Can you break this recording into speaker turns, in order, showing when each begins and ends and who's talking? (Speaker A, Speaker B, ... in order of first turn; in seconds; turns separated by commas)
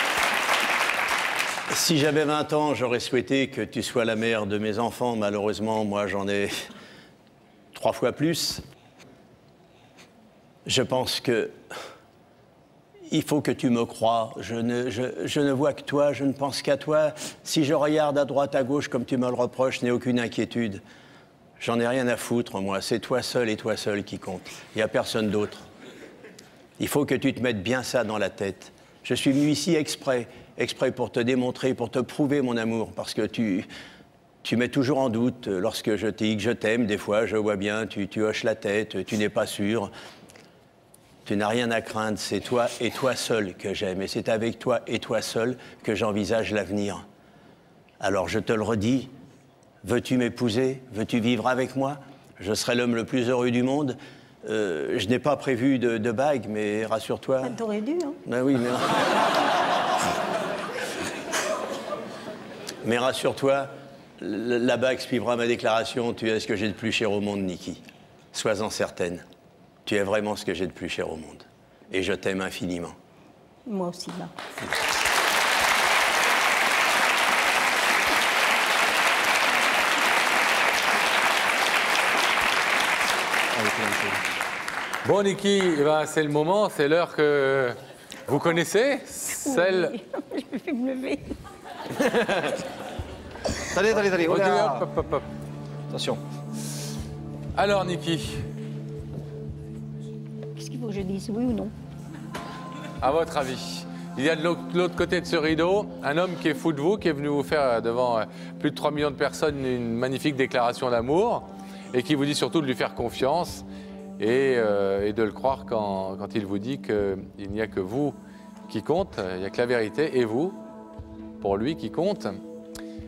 Speaker A: 1.7-6.7, Speaker A: 7.7-8.6, Speaker A: 10.7-11.6, Speaker A: 13.1-20.8, Speaker A: 21.6-25.6, Speaker A: 26.8-33.7, Speaker A: 34.4-39.9, Speaker A: 41.2-47.0, Speaker A: 48.0-49.1, Speaker A: 49.8-57.5, Speaker B: 57.4-58.2, Speaker A: 58.3-59.1, Speaker A: 62.8-69.2, Speaker A: 69.8-73.0, Speaker B: 73.7-74.3, Speaker C: 83.5-84.2, Speaker D: 85.0-89.9, Speaker B: 89.3-91.3, Speaker C: 92.0-92.6, Speaker C: 93.7-94.8, Speaker D: 94.0-95.2, Speaker C: 95.9-96.2, Speaker D: 97.5-98.4, Speaker B: 100.5-101.7, Speaker D: 103.0-113.6, Speaker D: 114.2-118.2, Speaker D: 118.7-120.5, Speaker D: 121.4-122.4